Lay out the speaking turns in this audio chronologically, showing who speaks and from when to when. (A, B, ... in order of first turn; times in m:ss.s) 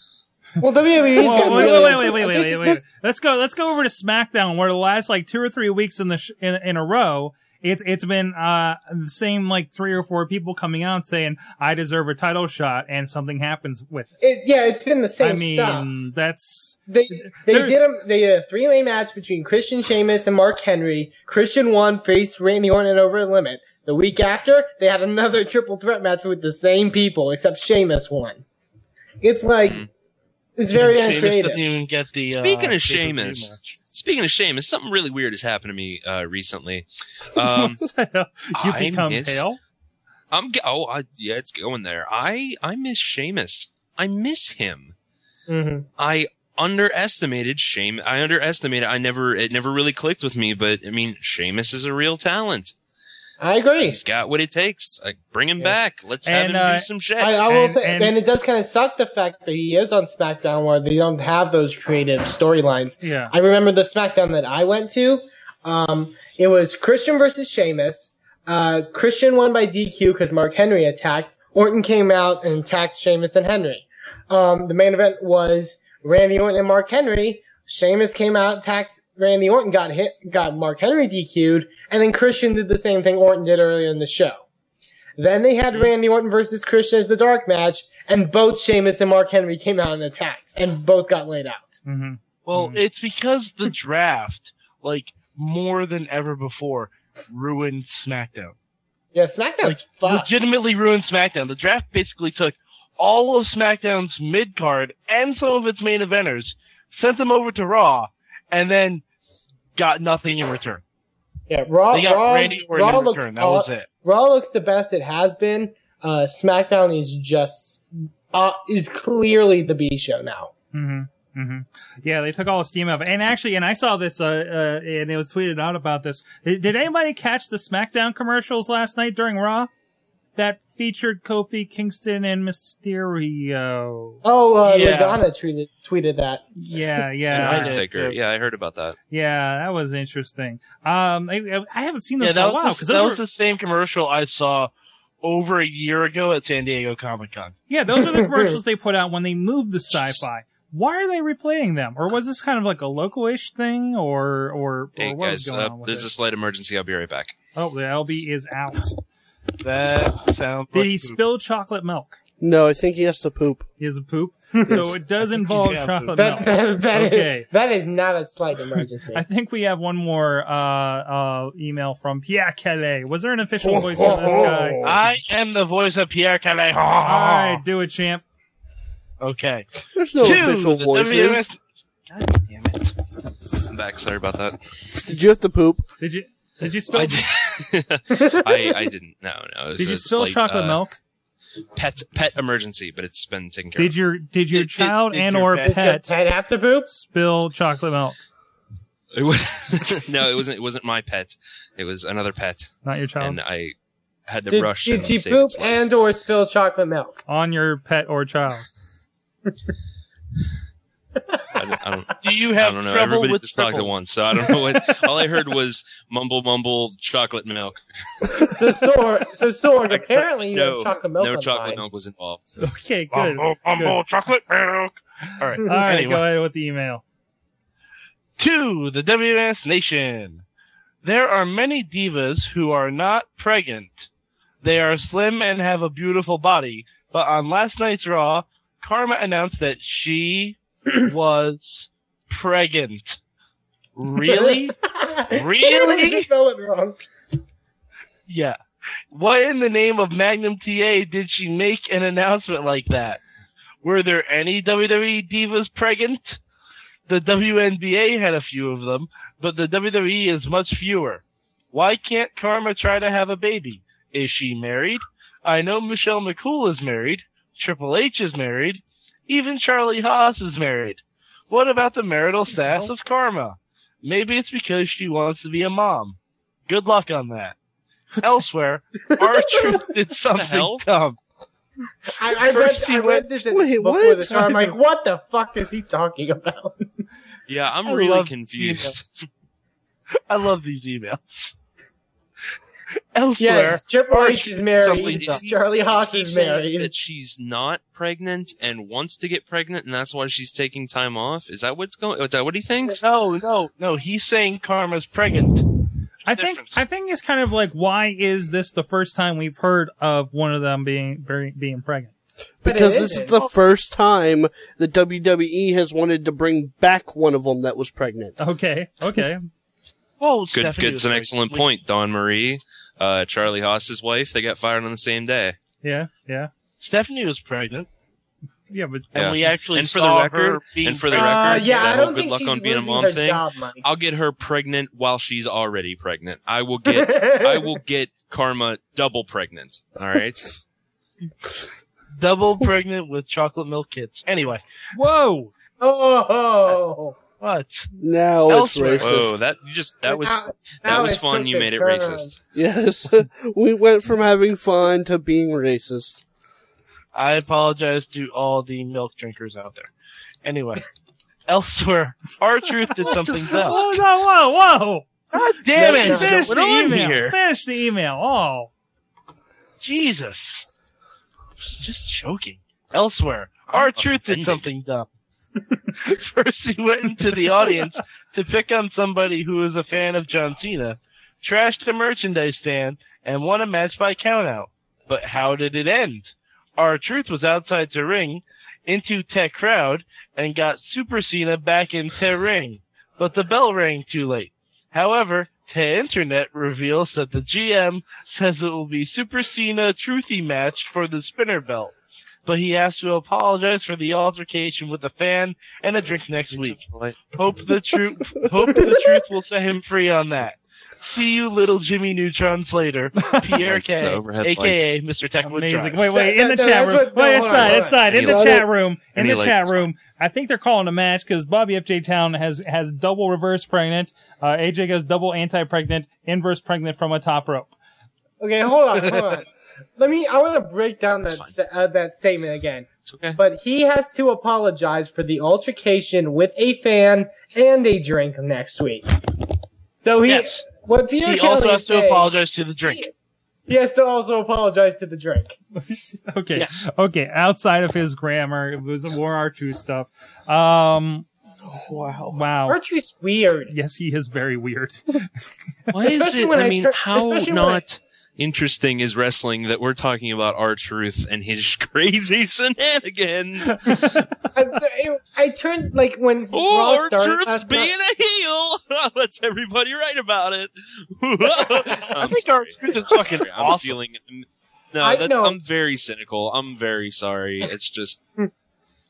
0:00.6-0:02.8 A
0:01.2-0:14.1 B
0:14.2-0:15.9 A
0:15.2-0:17.8 B
0:16.9-0:28.4 A
0:29.2-0:29.9 A
0:29.6-0:29.9 C
0:30.6-0:31.6 A
0:30.7-0:33.8 D
0:32.3-0:37.8 C
0:37.4-0:39.6 B
0:38.6-0:39.4 C
0:40.3-0:44.9 C
0:45.5-0:45.9 A
0:46.0-0:52.7 C
0:53.4-0:54.0 A
0:53.8-0:57.4 C
0:56.2-0:56.9 B
0:57.2-1:24.4 A
0:57.5-0:58.2 B
1:03.0-1:03.3 B
1:25.2-1:31.8 A
1:31.9-1:32.8 B
1:32.5-1:38.6 D
1:39.1-1:40.3 A
1:39.6-1:49.0 D
1:49.8-1:50.8 D
1:51.5-2:00.5 A
1:51.9-1:53.9 D
2:00.7-2:09.7 B
2:10.4-2:14.2 B
2:14.2-2:16.4 A
2:14.6-2:15.2 D
2:16.6-2:17.8 B
2:17.3-2:19.0 C
2:17.4-2:18.2 D
2:19.1-2:23.2 B
2:22.2-2:24.7 D
2:25.2-2:27.6 D
2:27.7-2:36.1 B
2:28.0-2:28.5 A
2:35.0-2:37.4 C
2:37.6-2:39.0 B
2:39.6-2:41.2 D
2:40.7-2:42.2 B
2:42.4-2:43.7 E
2:43.8-2:47.5 B
2:44.6-2:44.8 A
2:45.4-2:46.2 D
2:46.2-2:49.2 A
2:49.1-2:54.9 B
2:53.6-2:55.0 E
2:54.8-2:57.6 D
2:57.0-2:58.2 B
2:59.2-3:01.6 D
3:00.0-3:01.5 E
3:02.1-3:02.9 D
3:03.7-3:04.6 C
3:05.0-3:05.8 E
3:06.0-3:07.3 B
3:06.9-3:10.8 C
3:08.2-3:08.7 A
3:09.8-3:11.0 B
3:11.8-3:13.9 C
3:13.8-3:16.1 B
3:14.5-3:15.8 D
3:15.7-3:16.9 A
3:16.9-3:18.2 B
3:19.1-3:23.8 C
3:22.8-3:23.4 B
3:24.3-3:25.9 C
3:24.5-3:27.2 A
3:27.3-3:28.7 B
3:31.6-3:38.6 C
3:32.2-3:33.9 D
3:38.5-3:41.8 A
3:39.9-3:42.5 C
3:42.6-3:44.0 B
3:43.1-3:46.2 D
3:45.6-3:47.0 B
3:48.4-3:50.4 D
3:51.0-3:53.9 D
3:54.6-4:01.7 D
4:02.3-4:03.0 D
4:04.0-4:04.8 D
4:04.2-4:07.0 A
4:05.3-4:06.3 D
4:08.3-4:08.6 D
4:09.1-4:13.2 D
4:13.8-4:16.4 D
4:17.1-4:36.2 D
4:36.7-4:37.6 D
4:38.2-4:41.2 D
4:40.4-4:40.8 C
4:42.2-4:46.8 A
4:42.4-4:43.3 D
4:43.5-4:44.8 E
4:47.5-4:49.1 C
4:47.8-4:49.0 D
4:50.3-4:51.2 D
4:53.2-4:55.4 D
4:53.4-4:56.9 A
4:54.8-5:03.0 C
5:02.9-5:05.7 D
5:06.3-5:12.1 B
5:06.3-5:06.8 D
5:12.6-5:18.4 E
5:12.6-5:13.4 A
5:18.4-5:19.5 B
5:20.2-5:21.7 D
5:20.5-5:25.6 C
5:25.8-5:26.5 B
5:26.8-5:27.9 D
5:28.7-5:29.3 B
5:29.1-5:31.8 D
5:29.1-5:40.5 C
5:31.1-5:33.8 A
5:36.9-5:37.8 A
5:42.2-5:44.6 D
5:44.9-5:45.5 B
5:45.8-5:47.2 A
5:47.4-5:47.9 D
5:48.0-5:49.3 E
5:48.5-5:49.2 D
5:49.0-5:52.4 C
5:50.1-5:52.3 A
5:52.6-5:56.2 E
5:57.1-5:59.9 D
6:00.4-6:00.8 D
6:01.5-6:03.8 D
6:03.1-6:05.1 B
6:05.3-6:06.4 D
6:05.7-6:06.4 A
6:05.8-6:08.7 B
6:06.0-6:07.4 C
6:09.8-6:10.4 D
6:11.8-6:15.1 D
6:13.7-6:14.7 C
6:16.0-6:41.9 D
6:42.5-6:46.8 D
6:46.5-6:47.3 C
6:47.3-6:56.1 D
6:48.6-6:49.1 E
6:53.6-6:54.9 C
6:55.4-7:07.7 B
6:56.1-6:58.1 A
6:57.4-6:59.9 C
6:58.2-6:58.6 E
7:08.4-7:19.3 A
7:11.3-7:11.6 C
7:13.0-7:13.4 C
7:20.0-7:22.3 A
7:20.3-7:20.5 D
7:21.2-7:23.0 D
7:23.7-7:25.6 A
7:25.8-7:31.3 B
7:31.6-7:32.4 E
7:32.3-7:32.8 B
7:32.7-7:33.7 A
7:33.7-7:35.3 B
7:35.9-7:44.2 C
7:36.1-7:37.8 A
7:43.8-7:44.3 B
7:44.5-7:47.9 A
7:46.5-7:58.2 C
7:52.1-7:54.0 D
7:55.0-7:55.6 A